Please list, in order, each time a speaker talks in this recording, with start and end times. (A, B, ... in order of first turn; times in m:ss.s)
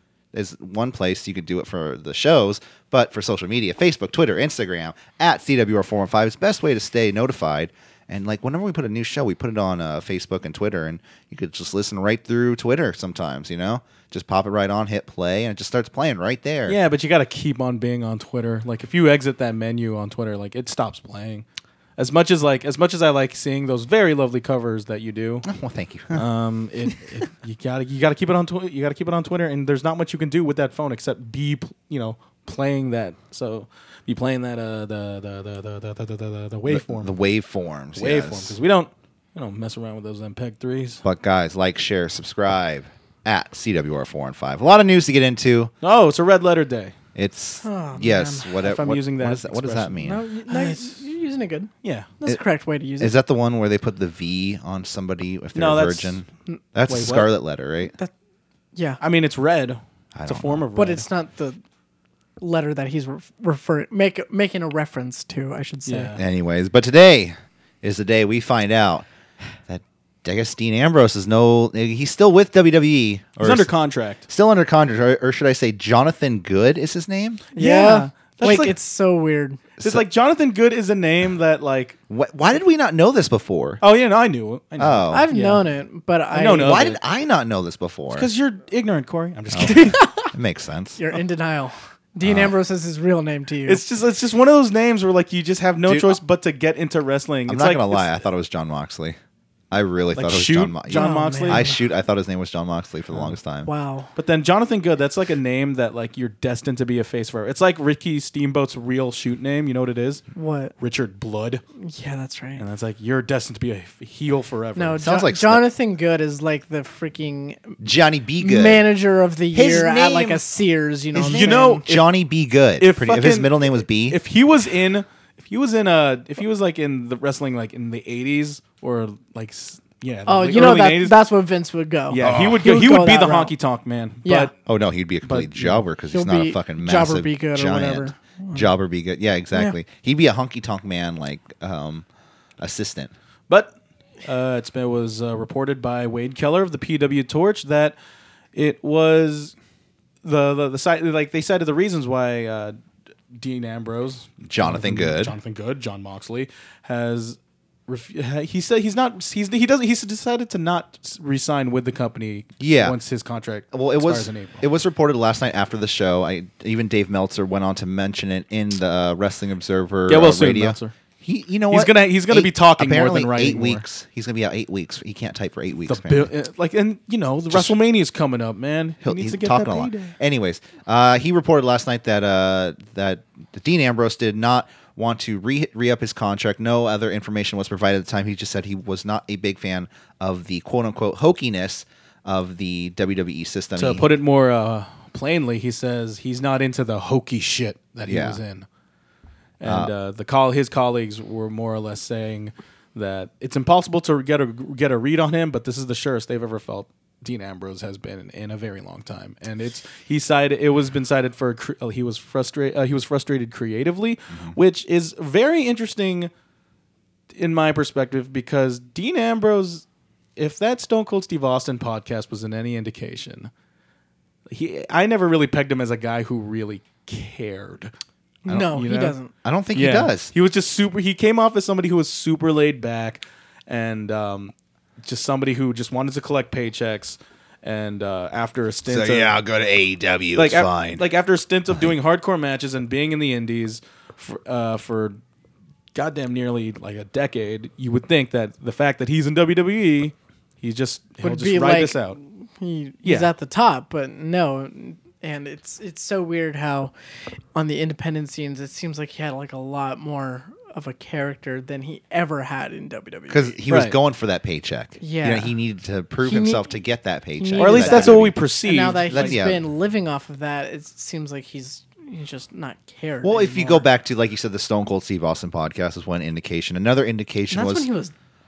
0:00.3-0:16.8 A
0:16.7-0:21.4 B
0:22.0-0:25.5 B
0:25.4-0:26.2 A
0:26.1-0:37.2 B
0:36.7-0:38.6 A
0:38.0-0:41.0 B
0:41.0-0:45.7 A
0:45.8-0:46.9 B
0:47.2-0:50.2 A
0:47.6-0:48.6 C
0:48.6-0:51.0 B
0:50.0-0:53.1 C
0:51.8-0:52.1 B
0:53.0-0:57.9 A
0:55.6-0:56.2 B
0:56.9-0:57.3 B
0:58.8-0:59.0 C
0:59.0-1:01.1 B
1:00.2-1:00.6 A
1:00.8-1:01.6 C
1:02.4-1:06.1 C
1:05.9-1:06.2 B
1:06.2-1:09.1 A
1:09.7-1:13.7 A
1:13.4-1:14.2 B
1:14.3-1:17.4 A
1:17.6-1:19.6 C
1:17.6-1:18.8 B
1:19.8-1:22.0 B
1:22.1-1:23.8 A
1:23.8-1:25.6 B
1:24.8-1:25.2 A
1:25.1-1:26.8 C
1:26.3-1:27.0 B
1:26.6-1:28.3 A
1:28.1-1:30.0 B
1:29.5-1:31.0 A
1:29.6-1:30.3 C
1:31.0-1:33.8 C
1:32.2-1:32.5 A
1:33.7-1:38.1 B
1:35.9-1:36.2 A
1:37.5-1:39.2 A
1:39.7-1:43.7 A
1:40.1-1:41.6 B
1:40.9-1:41.8 C
1:43.6-1:44.1 C
1:44.2-1:50.2 B
1:50.3-1:50.7 C
1:50.8-1:51.6 B
1:51.8-1:52.6 C
1:52.6-1:55.0 B
1:54.8-1:57.8 C
1:55.0-1:55.6 A
1:57.8-1:58.8 A
1:58.4-2:01.8 C
1:59.5-2:00.4 A
2:01.1-2:04.2 A
2:01.2-2:02.1 B
2:02.8-2:11.2 B
2:10.3-2:13.5 C
2:12.1-2:14.5 B
2:12.2-2:12.6 A
2:14.2-2:14.5 C
2:14.7-2:22.1 A
2:15.2-2:15.8 B
2:16.1-2:18.7 C
2:22.6-2:23.1 A
2:24.2-2:27.9 B
2:28.5-2:29.5 B
2:30.2-2:32.8 B
2:33.3-2:44.6 B
2:34.4-2:35.4 A
2:42.6-2:43.0 A
2:43.7-2:56.3 A
2:50.1-2:50.9 B
2:51.7-2:53.8 B
2:55.9-3:00.1 B
2:59.0-3:14.1 A
3:13.8-3:18.7 B
3:18.1-3:18.4 A
3:19.6-3:36.3 B
3:19.6-3:19.9 A
3:34.3-3:34.6 A
3:37.4-3:39.8 B
3:40.4-3:43.5 B
3:44.5-3:47.9 B
3:48.4-3:49.3 C
3:48.6-3:49.2 B
3:49.4-3:50.3 A
3:49.7-3:59.4 B
3:58.9-4:01.1 A
4:00.4-4:05.2 B
4:05.9-4:12.2 B
4:11.2-4:16.9 C
4:13.0-4:13.3 B
4:17.6-4:23.6 C
4:23.3-4:28.4 A
4:23.7-4:24.0 B
4:25.0-4:25.5 C
4:26.2-4:26.7 C
4:27.4-4:33.9 C
4:27.6-4:29.4 B
4:29.1-4:29.6 A
4:33.2-4:37.9 A
4:37.5-4:38.1 C